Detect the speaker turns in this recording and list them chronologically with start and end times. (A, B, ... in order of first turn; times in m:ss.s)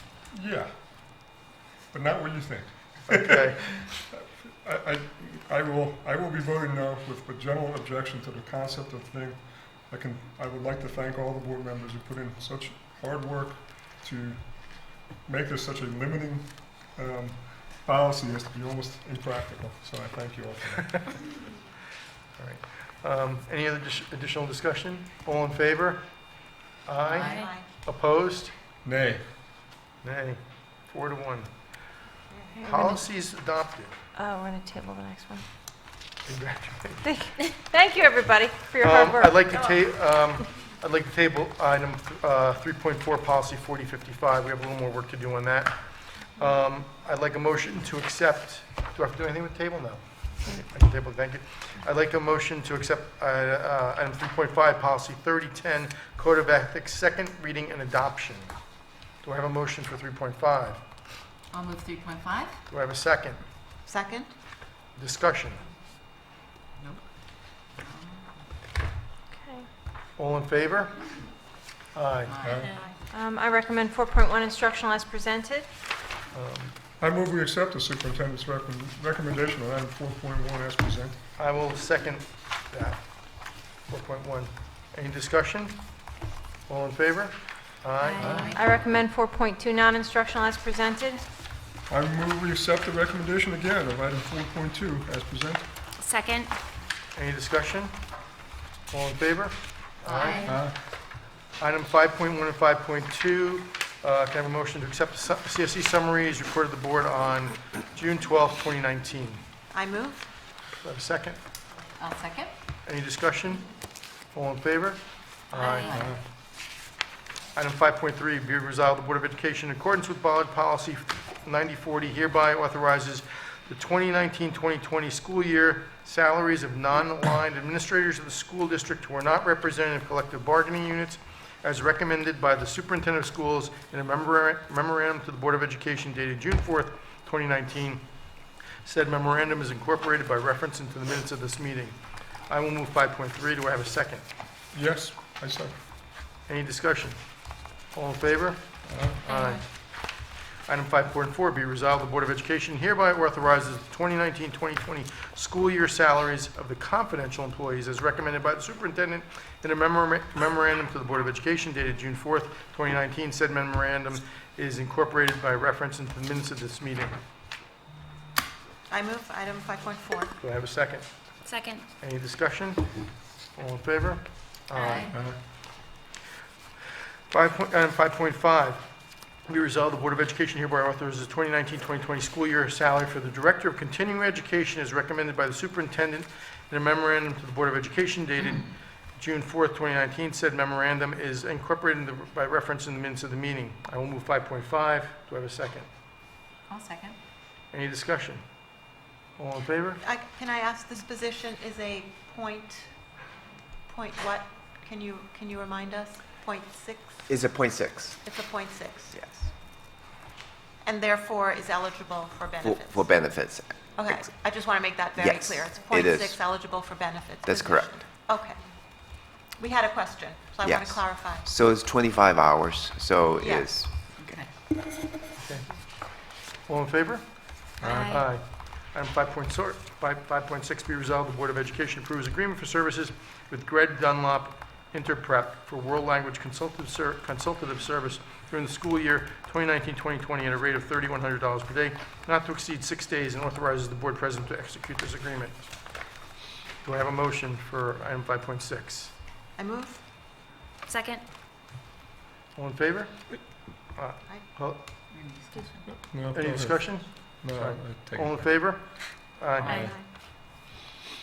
0:00.3-0:01.4 A
0:01.9-0:21.2 A
0:03.1-0:03.6 B
0:22.4-0:28.5 B
0:27.1-0:27.5 C
0:27.2-0:27.6 D
0:28.8-0:29.2 A
0:30.0-0:31.7 B
0:32.3-0:32.6 D
0:32.6-0:33.0 E
0:32.6-0:34.0 B
0:34.2-0:35.4 E
0:36.2-0:37.1 B
0:37.0-0:39.6 E
0:38.8-0:45.8 B
0:46.3-0:58.6 B
0:59.2-1:00.8 B
1:01.5-1:02.6 C
1:02.7-1:03.4 B
1:03.8-1:04.3 D
1:05.0-1:05.6 B
1:07.6-1:08.3 C
1:09.3-1:09.7 E
1:10.2-1:11.2 B
1:11.9-1:12.5 B
1:12.3-1:12.6 C
1:12.4-1:12.7 A
1:13.1-1:15.7 E
1:16.3-1:16.8 B
1:17.0-1:21.2 A
1:21.4-1:23.3 B
1:23.8-1:25.8 B
1:26.7-1:28.5 B
1:28.1-1:28.6 C
1:28.2-1:31.2 E
1:31.9-1:35.6 A
1:36.0-1:36.5 F
1:37.1-1:38.0 B
1:38.9-1:40.7 B
1:40.0-1:40.6 C
1:40.4-1:40.7 A
1:41.6-1:49.4 B
1:49.7-1:50.3 D
1:50.8-1:51.4 B
1:52.0-1:52.5 C
1:52.8-1:53.7 B
1:54.3-1:56.0 B
1:55.5-1:55.8 D
1:55.7-1:56.1 C
1:57.5-2:18.0 B
2:18.8-2:22.0 B
2:22.5-2:24.2 B
2:24.7-2:25.8 A
2:26.5-2:27.2 B
2:27.9-2:29.7 B
2:28.8-2:29.2 A
2:29.2-2:29.6 F
2:30.6-2:47.2 B
2:48.9-2:50.3 D
2:50.4-2:51.0 B
2:51.4-2:51.9 F
2:52.0-2:53.0 B
2:53.5-2:55.2 B
2:54.7-2:55.1 C
2:55.1-2:55.4 A
2:57.3-2:58.8 B
2:59.4-3:15.9 B
3:16.7-3:17.2 C
3:17.7-3:18.4 B
3:19.4-3:20.0 B
3:20.0-3:22.9 D
3:23.9-3:27.3 D
3:27.3-3:28.2 G
3:28.2-3:29.1 D
3:29.1-3:29.5 G
3:30.8-3:33.1 D
3:32.6-3:34.3 G
3:34.0-3:41.4 D
3:35.2-3:36.4 G
3:37.4-3:38.0 G
3:40.6-3:44.4 G
3:43.4-3:43.8 D
3:44.2-3:44.5 C
3:45.4-3:45.8 B
3:46.6-4:05.7 B
3:47.8-3:48.2 A
3:47.8-3:48.2 F
4:06.8-4:09.1 B
4:09.6-4:10.0 D
4:10.9-4:11.2 F
4:12.5-4:14.8 B
4:15.1-4:15.9 C
4:15.9-4:18.4 A
4:16.3-4:19.9 B
4:19.6-4:19.9 C
4:19.7-4:20.0 D